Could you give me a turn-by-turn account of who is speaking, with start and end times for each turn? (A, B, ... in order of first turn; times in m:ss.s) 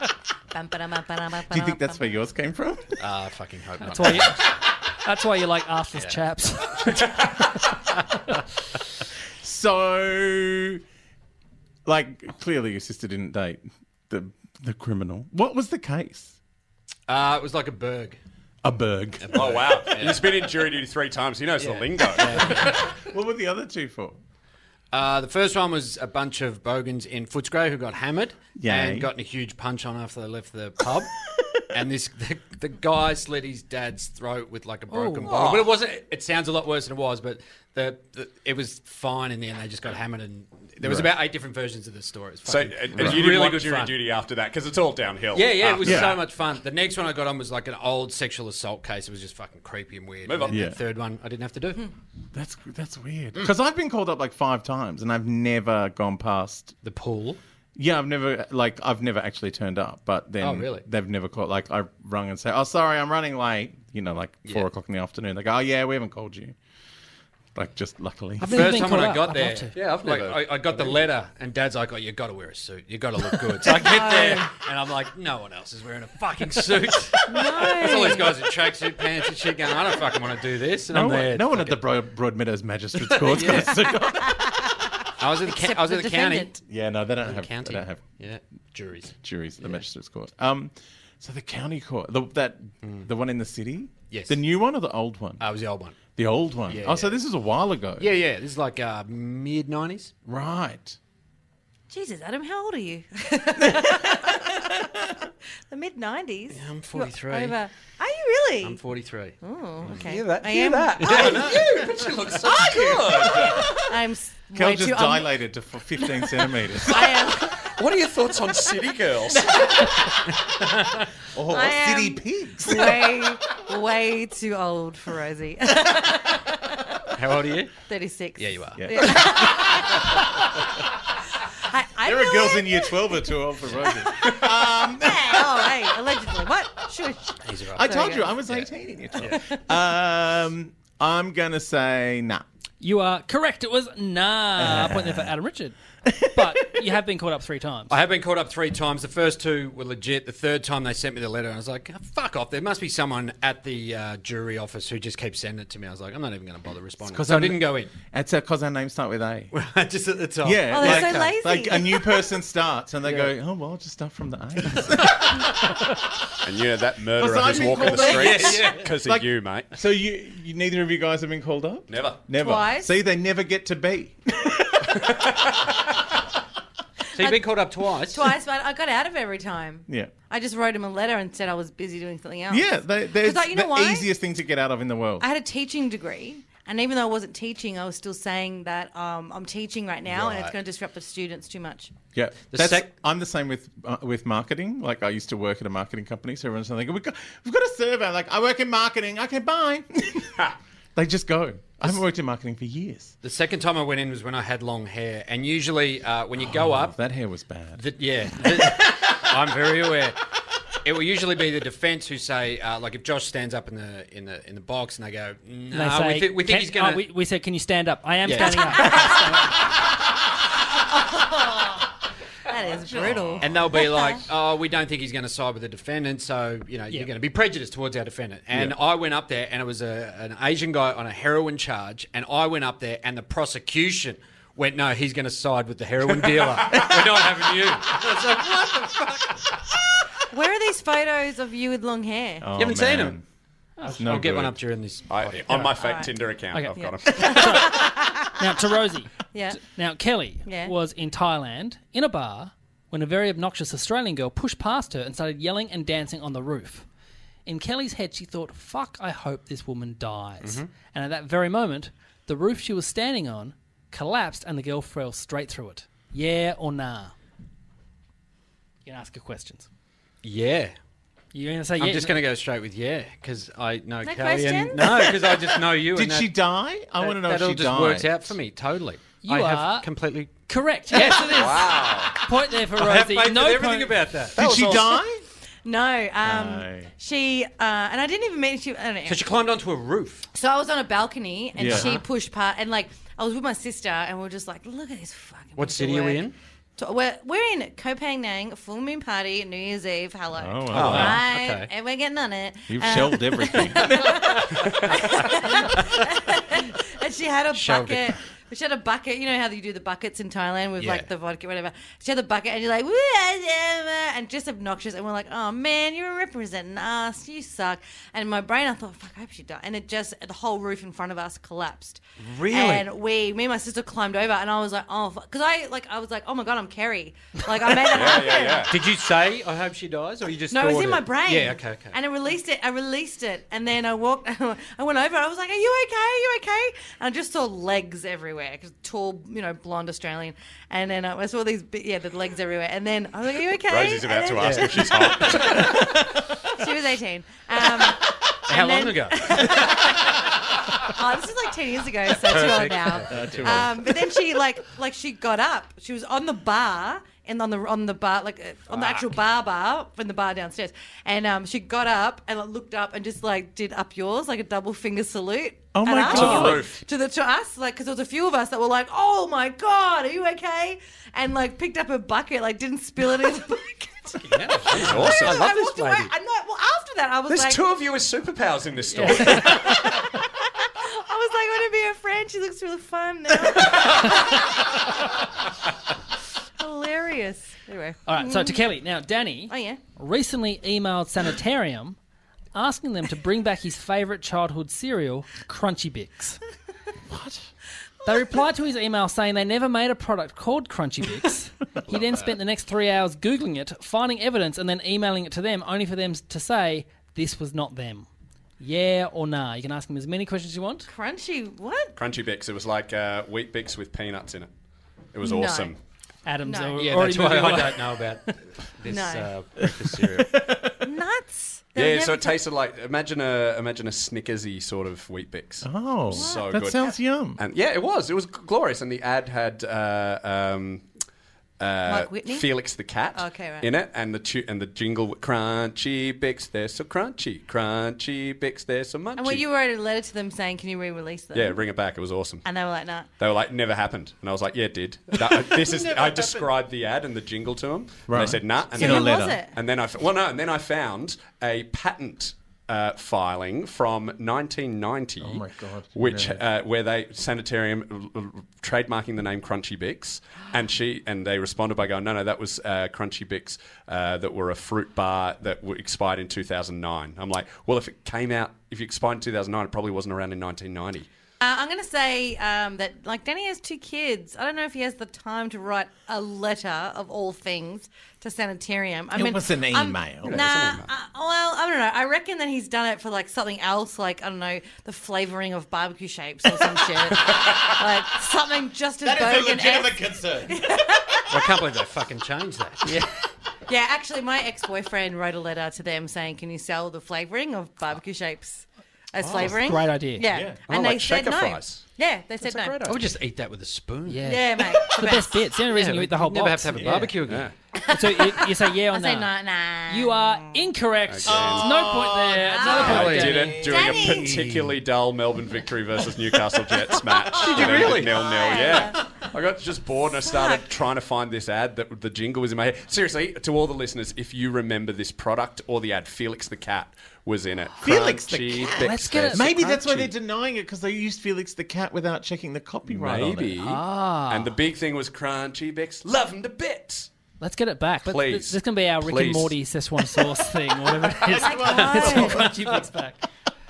0:00.5-0:02.1 A
0:01.5-0:03.0 B
0:03.0-0:04.5 C
0:03.9-0:07.0 D
0:09.4-0:10.8 B
0:11.8-0:16.4 B
0:17.1-0:18.2 C
0:18.6-0:20.0 B
0:19.2-0:20.4 C
0:19.3-0:22.8 E
0:21.6-0:22.8 C
0:22.5-0:24.2 B
0:24.9-0:31.2 C
0:28.6-0:29.1 B
0:31.7-0:44.0 C
0:34.9-0:35.3 D
0:35.2-0:35.7 E
0:40.8-0:41.1 B
0:42.5-0:46.2 E
0:45.3-0:51.9 C
0:45.8-0:46.2 B
0:50.2-0:50.6 E
0:50.5-0:50.8 B
0:52.3-0:56.7 B
0:56.8-0:57.4 C
0:57.8-1:06.5 B
1:00.4-1:00.8 C
1:07.5-1:09.0 B
1:08.4-1:09.7 D
1:08.4-1:21.8 C
1:09.7-1:11.0 E
1:13.7-1:14.4 A
1:17.3-1:18.4 A
1:20.9-1:24.5 B
1:23.2-1:23.8 C
1:23.5-1:26.5 A
1:25.2-1:26.6 C
1:26.7-1:28.0 B
1:27.2-1:29.8 C
1:29.2-1:35.4 B
1:34.1-1:34.4 C
1:35.4-1:36.0 C
1:36.2-1:38.1 B
1:36.7-1:37.2 C
1:38.0-1:40.1 C
1:40.2-1:41.0 B
1:41.9-1:44.8 A
1:45.7-1:48.8 A
1:46.5-1:47.6 C
1:48.6-1:50.1 C
1:49.4-1:52.0 A
1:49.9-1:53.8 E
1:51.0-1:51.6 C
1:52.5-1:53.4 B
1:52.8-1:55.3 A
1:54.5-1:57.4 B
1:56.0-1:57.7 A
1:57.8-1:59.5 E
1:59.3-2:00.2 B
2:00.6-2:01.0 C
2:01.3-2:03.3 B
2:01.5-2:07.0 A
2:07.2-2:07.7 C
2:07.9-2:10.5 A
2:08.4-2:09.2 C
2:08.8-2:10.0 B
2:11.7-2:18.4 A
2:12.0-2:15.7 B
2:17.4-2:17.9 C
2:17.7-2:22.4 B
2:18.4-2:19.4 C
2:19.2-2:19.5 A
2:22.8-2:25.8 D
2:24.6-2:25.3 B
2:26.0-2:26.8 B
2:26.3-2:27.9 D
2:27.9-2:37.9 C
2:37.0-2:39.5 B
2:39.5-2:41.3 C
2:40.4-2:45.5 B
2:40.7-2:42.3 A
2:43.0-2:43.3 C
2:46.4-2:49.7 E
2:47.2-2:55.2 B
2:47.8-2:48.9 C
2:51.9-2:52.2 E
2:52.3-2:52.9 A
2:54.9-2:55.9 E
2:57.1-2:58.3 C
2:57.2-3:04.1 A
3:02.5-3:05.3 B
3:05.2-3:11.9 A
3:10.1-3:10.5 C
3:12.1-3:23.1 B
3:12.5-3:12.9 C
3:23.2-3:27.0 C
3:26.4-3:27.8 B
3:27.8-3:30.2 C
3:28.4-3:28.8 B
3:30.8-3:37.0 C
3:35.7-3:39.5 D
3:38.3-3:39.0 C
3:38.7-3:39.2 A
3:41.0-3:41.8 A
3:42.5-3:44.2 A
3:42.6-3:43.6 B
3:43.4-3:59.6 C
3:48.5-3:48.8 B
3:56.2-3:57.3 B
4:00.3-4:02.5 A
4:02.4-4:03.2 B
4:02.6-4:03.2 C
4:03.8-4:05.7 C
4:04.0-4:04.6 B
4:05.1-4:07.8 E
4:05.8-4:08.5 A
4:06.5-4:16.8 D
4:09.3-4:09.6 A
4:10.4-4:10.7 A
4:17.4-4:27.1 D
4:20.4-4:20.7 C
4:28.8-4:29.7 D
4:30.2-4:30.7 C
4:31.3-4:32.2 D
4:31.8-4:36.4 C
4:34.0-4:35.3 A
4:35.8-4:38.3 B
4:37.0-4:40.3 C
4:39.2-4:39.9 D
4:40.5-4:44.0 D
4:40.9-4:41.6 C
4:41.3-4:42.1 E
4:42.8-4:44.4 C
4:44.3-4:45.2 B
4:44.4-4:45.0 E
4:45.6-4:49.2 A
4:46.2-4:46.9 B
4:49.1-4:50.2 C
4:50.3-4:56.3 A
4:51.6-4:52.0 B
4:51.7-4:52.0 C
4:55.6-4:56.4 C
4:56.8-5:28.7 A
5:00.3-5:01.2 B
5:00.7-5:01.7 C
5:02.7-5:04.4 B
5:07.5-5:08.1 C
5:10.8-5:11.1 C
5:22.2-5:22.8 C
5:27.8-5:28.7 E
5:28.7-5:32.0 C
5:30.5-6:17.7 A
5:43.7-5:45.9 E
5:44.4-5:44.7 C
5:45.5-5:46.2 B
5:48.5-5:50.1 C
5:52.2-5:53.6 C
5:53.1-5:54.0 B
6:05.7-6:06.7 B
6:06.0-6:06.8 E
6:14.2-6:16.1 C
6:14.7-6:15.5 E
6:17.3-6:19.7 E
6:18.9-6:19.6 D
6:19.2-6:24.7 A
6:26.6-6:28.6 A
6:28.0-6:32.0 D
6:29.5-6:29.8 A
6:32.5-6:36.4 D
6:37.1-6:37.4 B
6:38.0-6:48.1 D
6:41.9-6:42.2 E
6:48.6-6:50.9 D
6:50.9-6:51.9 A
6:52.0-6:54.5 E
6:55.1-6:55.8 E
6:55.2-6:55.7 A
6:56.2-6:58.3 D
6:56.4-6:56.8 A
6:56.8-7:00.4 C
6:58.9-6:59.3 A
6:59.6-7:00.8 B
7:00.8-7:02.4 A
7:01.8-7:10.9 E
7:05.6-7:07.4 B
7:06.1-7:06.5 A
7:11.6-7:19.4 E
7:11.9-7:13.7 A
7:19.2-7:21.6 A
7:21.3-7:22.4 E
7:22.4-7:23.1 A
7:23.2-7:35.4 E
7:25.3-7:26.5 A
7:28.1-7:29.4 B
7:28.7-7:29.6 A
7:35.2-7:36.4 B
7:35.9-7:51.1 E
7:51.4-8:11.2 A
7:59.1-8:00.4 B
8:00.2-8:00.9 E
8:07.4-8:07.7 E
8:09.0-8:10.6 B
8:11.3-8:13.0 C
8:13.7-8:22.9 A
8:19.4-8:20.2 D
8:20.2-8:20.6 B
8:20.7-8:21.9 E
8:22.4-8:23.0 E
8:22.8-8:24.3 C
8:24.0-8:27.2 D
8:24.2-8:25.4 A
8:25.7-8:27.5 C
8:27.3-8:27.5 E
8:27.7-8:30.6 A
8:27.9-8:29.3 D
8:29.9-8:33.6 D
8:31.1-8:31.7 E
8:31.3-8:34.6 B
8:32.4-8:34.4 A
8:32.7-8:50.0 E
8:32.8-8:33.5 C
8:37.3-8:38.9 A
8:37.4-8:39.0 C
8:40.2-8:40.6 A
8:47.8-8:53.6 B
8:48.7-8:50.0 D
8:52.9-8:57.1 E
8:53.6-8:54.6 D
8:57.4-9:03.2 D
8:58.0-8:59.5 E
9:01.1-9:02.6 B
9:01.3-9:02.5 A
9:01.8-9:02.5 C